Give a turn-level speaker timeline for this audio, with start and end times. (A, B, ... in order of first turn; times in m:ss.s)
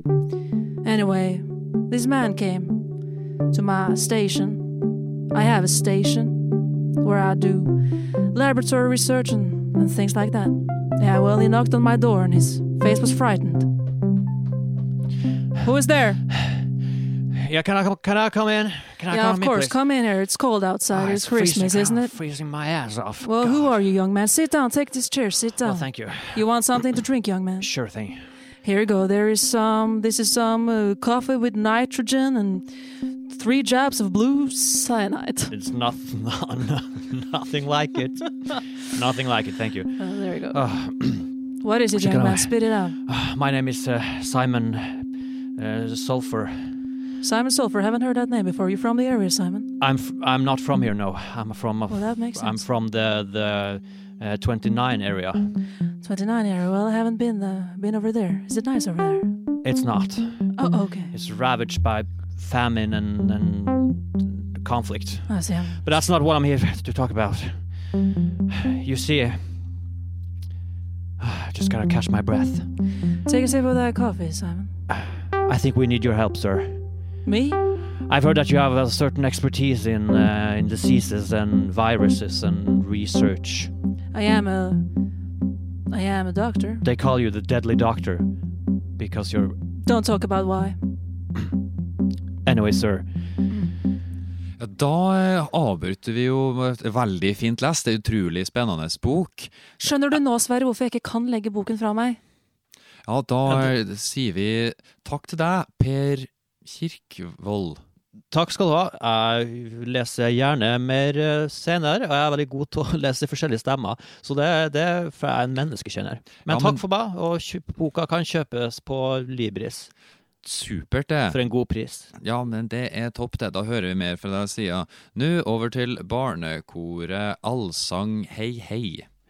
0:00.8-0:02.8 A
0:03.5-0:04.8 A
0:05.3-0:13.7 A
0:15.6-0:16.2 A
0:17.3-0:19.8 B
0:19.1-0:22.2 A
0:20.9-0:23.8 B
0:23.2-0:27.7 A
0:25.6-0:26.5 B
0:27.6-0:28.2 B
0:28.6-0:35.5 A
0:35.5-0:41.3 B
0:40.0-0:40.6 A
0:41.6-0:43.0 A
0:41.9-0:46.8 B
0:47.2-0:49.7 A
0:49.8-0:55.5 B
0:51.9-0:52.6 A
0:56.0-0:59.4 A
0:59.6-1:00.6 B
1:00.6-1:01.1 A
1:01.1-1:09.7 B
1:05.3-1:05.8 A
1:11.2-1:12.7 B
1:13.2-1:14.7 A
1:14.9-1:16.8 B
1:17.3-1:17.6 A
1:18.0-1:23.7 B
1:24.1-1:24.9 A
1:25.9-1:26.8 A
1:26.8-1:28.3 B
1:29.0-1:29.6 B
1:29.8-1:30.8 A
1:32.4-1:33.1 B
1:34.6-1:39.8 C
1:39.8-1:42.2 A
1:43.1-1:47.8 C
1:48.3-1:59.9 B
1:56.5-1:56.8 C
2:00.4-2:01.4 C
2:01.3-2:02.1 B
2:02.2-2:09.1 C